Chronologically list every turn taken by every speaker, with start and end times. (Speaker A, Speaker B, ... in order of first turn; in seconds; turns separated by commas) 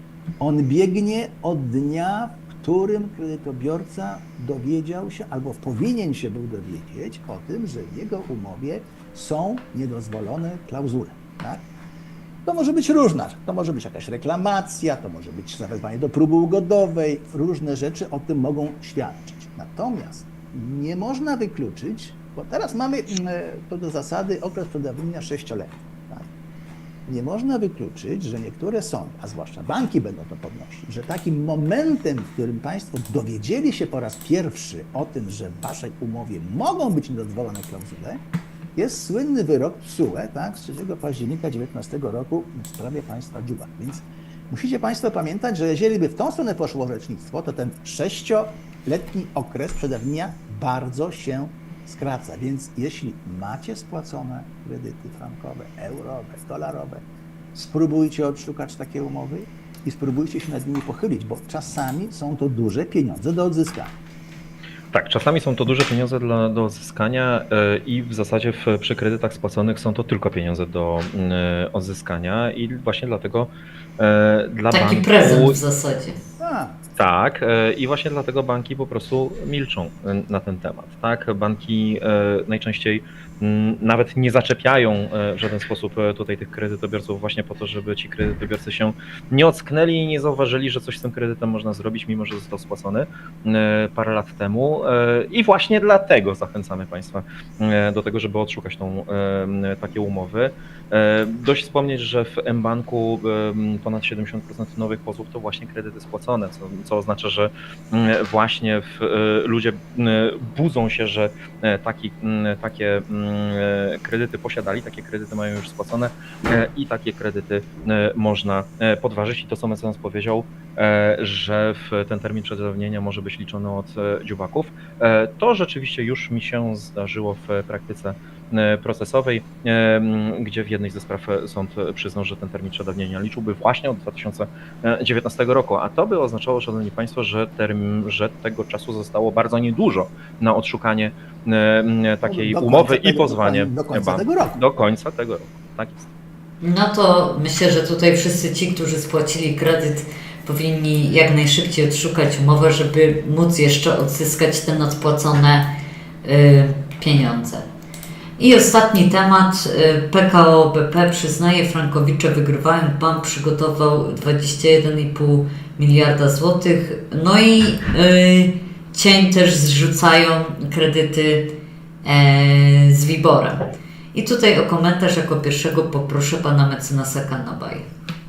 Speaker A: 0.4-11.6, Speaker A: 12.4-26.3, Speaker A: 27.1-38.2, Speaker A: 38.8-63.9, Speaker B: 64.9-75.6, Speaker C: 74.7-76.2, Speaker A: 76.4-76.8, Speaker B: 77.0-146.1, Speaker A: 142.2-144.6, Speaker C: 146.6-155.7, Speaker C: 156.2-157.7, Speaker C: 158.4-177.9